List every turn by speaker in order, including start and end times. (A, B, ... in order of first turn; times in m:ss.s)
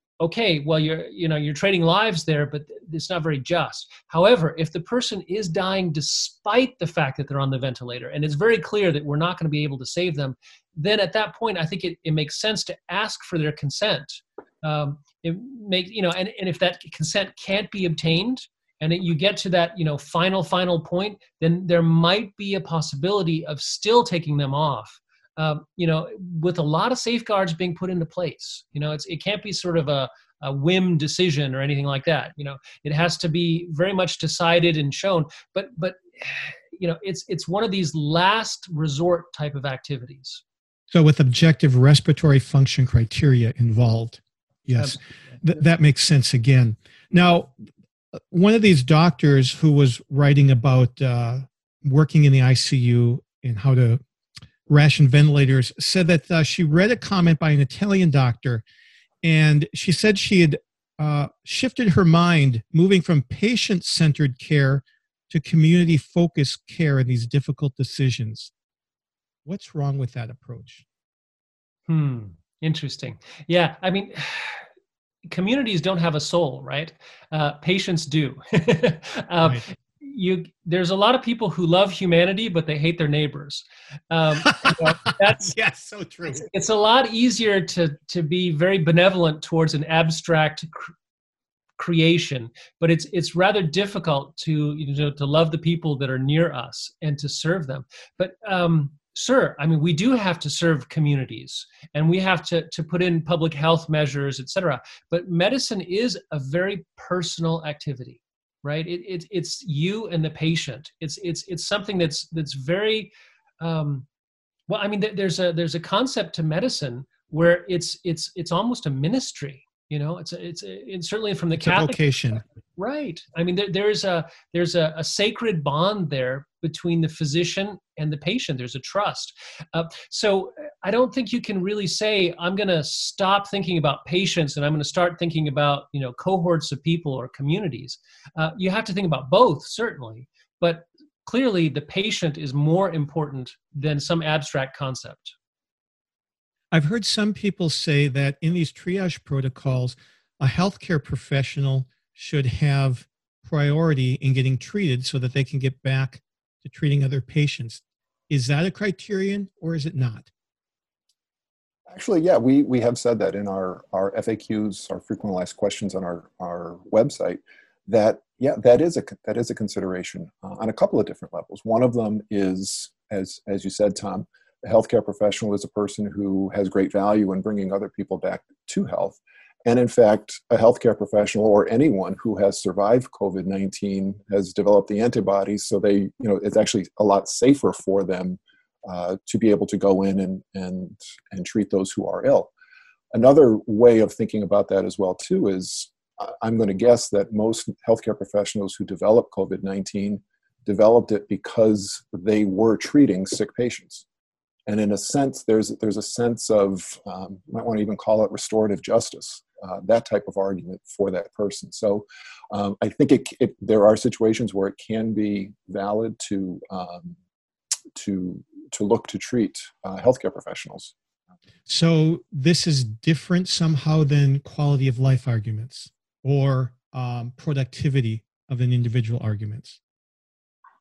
0:00.2-0:40.4 A
0:40.9-0:47.5 B
0:48.3-0:54.0 B
0:54.7-0:58.6 B
0:59.2-1:08.5 B
1:09.4-1:10.8 B
1:11.9-1:14.6 A
1:15.3-1:25.5 A
1:24.4-1:26.4 B
1:26.4-1:30.9 A
1:31.8-1:54.0 A
1:54.7-2:02.0 A
2:01.6-2:02.4 B
2:02.8-2:25.3 A
2:26.7-2:40.3 B
2:41.9-3:12.5 C
3:13.1-3:24.0 C
3:24.7-3:37.2 C
3:37.9-3:40.9 C
3:41.6-3:49.8 B